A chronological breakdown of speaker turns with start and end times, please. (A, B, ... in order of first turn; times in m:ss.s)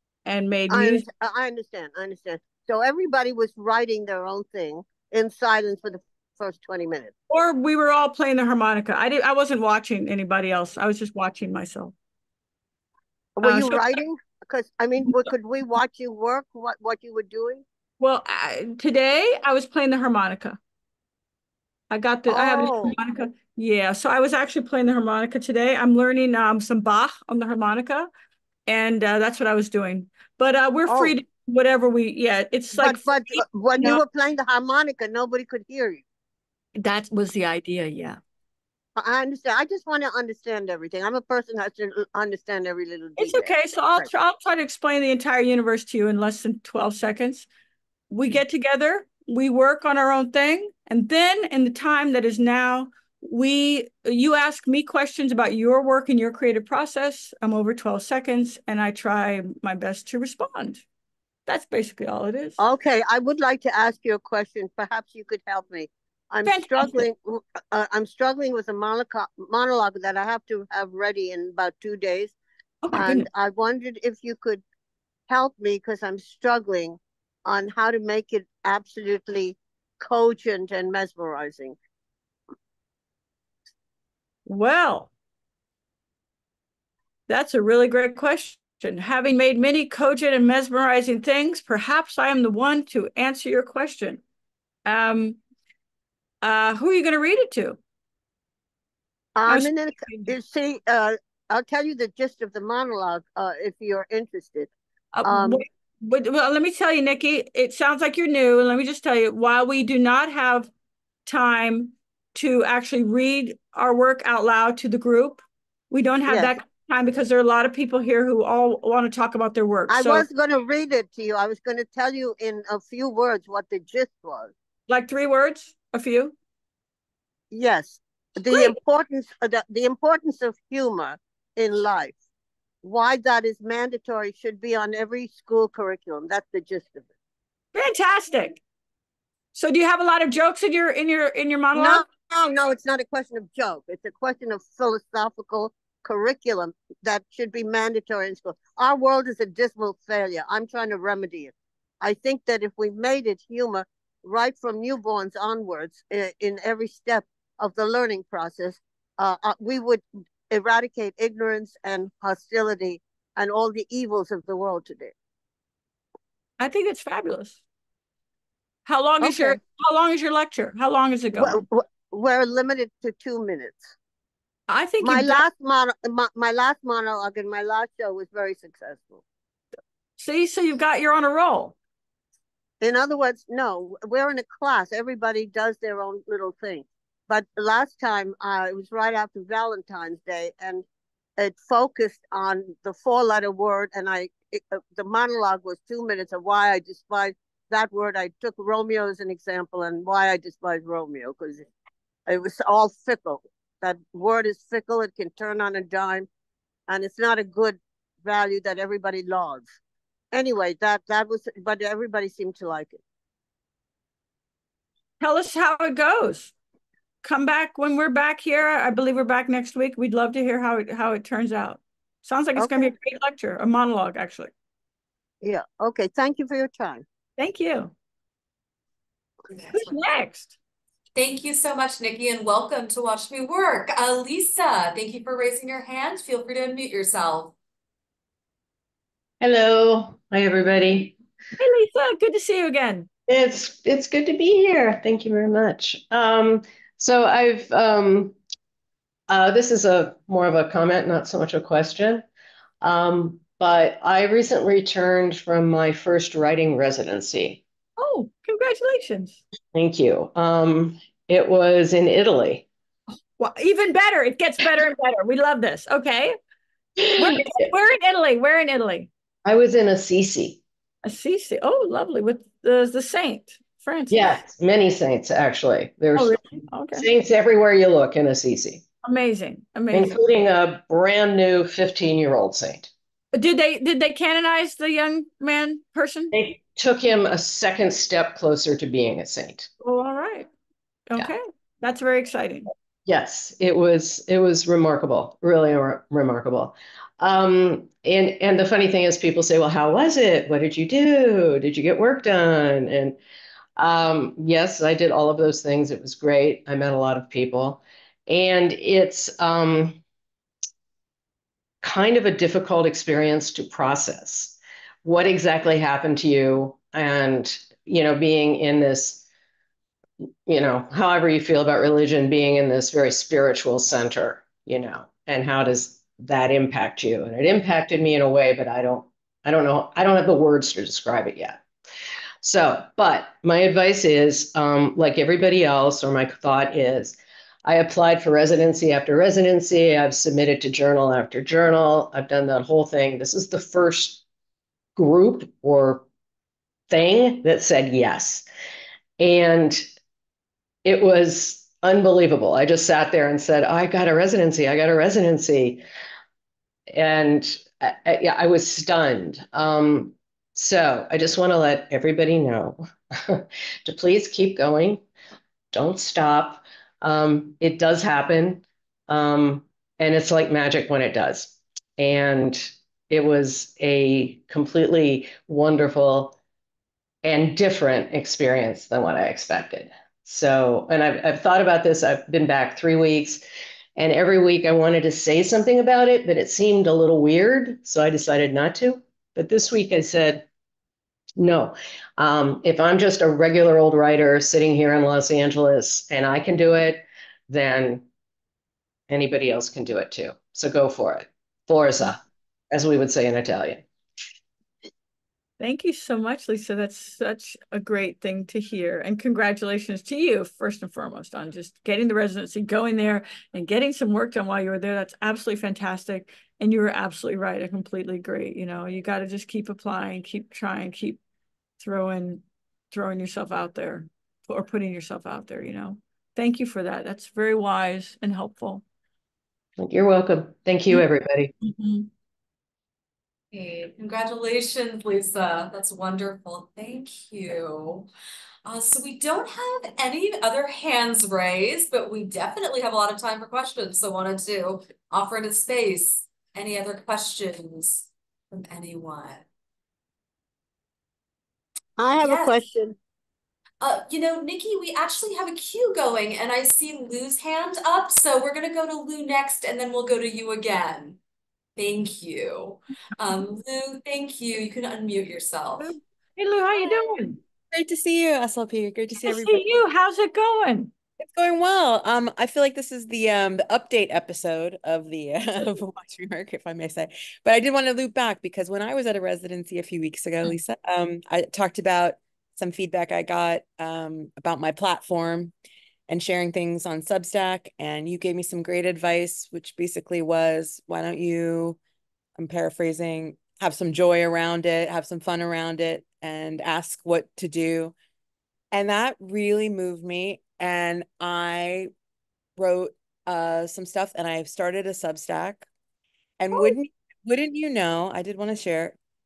0:00.3-0:01.0 A
0:00.7-0:07.1 B
0:07.3-0:11.9 A
0:13.4-0:17.6 B
0:13.4-0:14.0 A
0:18.0-0:20.6 A
0:21.9-0:28.1 A
0:22.3-0:22.9 B
0:28.7-0:34.0 A
0:30.9-0:31.1 B
0:32.8-0:36.0 B
0:36.8-0:38.2 A
0:39.0-0:44.1 B
0:43.2-0:47.5 A
0:48.1-1:00.8 A
1:01.5-1:02.6 A
1:02.6-1:12.3 B
1:06.4-1:07.0 A
1:12.8-1:13.3 A
1:12.9-1:14.6 B
1:15.3-1:21.8 B
1:24.5-1:25.1 A
1:27.3-1:34.2 A
1:34.8-1:35.4 A
1:36.4-1:37.8 A
1:39.4-1:44.7 B
1:39.5-1:40.3 A
1:45.1-1:50.7 A
1:45.2-1:45.6 B
1:51.3-2:00.2 A
1:59.9-2:04.5 B
2:04.9-2:06.4 A
2:07.5-2:12.2 B
2:08.5-2:08.8 A
2:12.8-2:17.0 B
2:17.7-2:18.6 A
2:19.5-2:22.0 A
2:21.7-2:45.1 B
2:46.6-2:47.6 A
2:48.9-2:51.6 A
2:49.2-2:49.6 B
2:51.4-2:53.9 B
2:54.7-2:55.4 A
2:55.0-2:59.2 B
3:00.2-3:01.8 A
3:02.8-3:10.8 B
3:11.4-3:21.7 B
3:22.3-3:26.3 B
3:26.9-3:29.7 B
3:30.3-3:33.0 B
3:35.2-3:36.5 A
3:37.2-3:44.5 A
3:42.6-3:42.9 B
3:45.4-3:47.0 B
3:47.4-3:47.9 A
3:49.5-3:50.0 C
3:49.7-3:50.5 A
3:51.2-3:57.6 C
3:59.4-4:01.2 D
4:01.6-4:03.1 A
4:03.3-4:08.4 D
4:09.3-4:12.2 D
4:12.8-4:17.6 D
4:18.0-4:19.4 A
4:19.7-4:22.7 D
4:23.4-4:26.4 A
4:27.0-4:27.7 D
4:27.2-4:29.1 A
4:29.4-4:30.6 D
4:31.0-4:34.4 A
4:34.1-4:38.8 D
4:36.2-4:37.1 A
4:39.0-4:40.2 A
4:39.9-4:42.9 D
4:43.3-4:46.3 A
4:46.3-4:49.7 D
4:49.8-4:50.5 A
4:51.1-4:52.7 A
4:53.1-5:03.2 D
5:03.8-5:10.0 D
5:11.8-5:19.2 D
5:20.5-5:31.6 D
5:32.4-5:44.2 D
5:45.0-5:46.0 D
5:46.9-5:48.4 D
5:49.2-5:49.9 D
5:50.8-5:55.8 D
5:56.9-6:05.0 D
6:05.7-6:16.4 D
6:17.2-6:23.4 D
6:24.0-6:30.5 D
6:31.4-6:38.0 D
6:39.1-6:42.2 D
6:42.7-6:43.8 D
6:45.6-7:01.2 A
7:01.8-7:08.8 A
7:09.8-7:11.5 D
7:11.6-7:12.1 A
7:13.5-7:18.1 C
7:18.6-7:29.5 C
7:32.0-7:33.0 B
7:32.2-7:32.6 C
7:33.8-7:41.2 C
7:41.8-7:46.0 C
7:45.8-7:47.4 A
7:47.7-7:49.6 E
7:49.2-7:50.9 A
7:51.2-8:05.5 E
8:06.1-8:11.8 E
8:12.4-8:17.9 E
8:18.7-8:21.9 E
8:22.6-8:25.7 E
8:26.4-8:29.0 E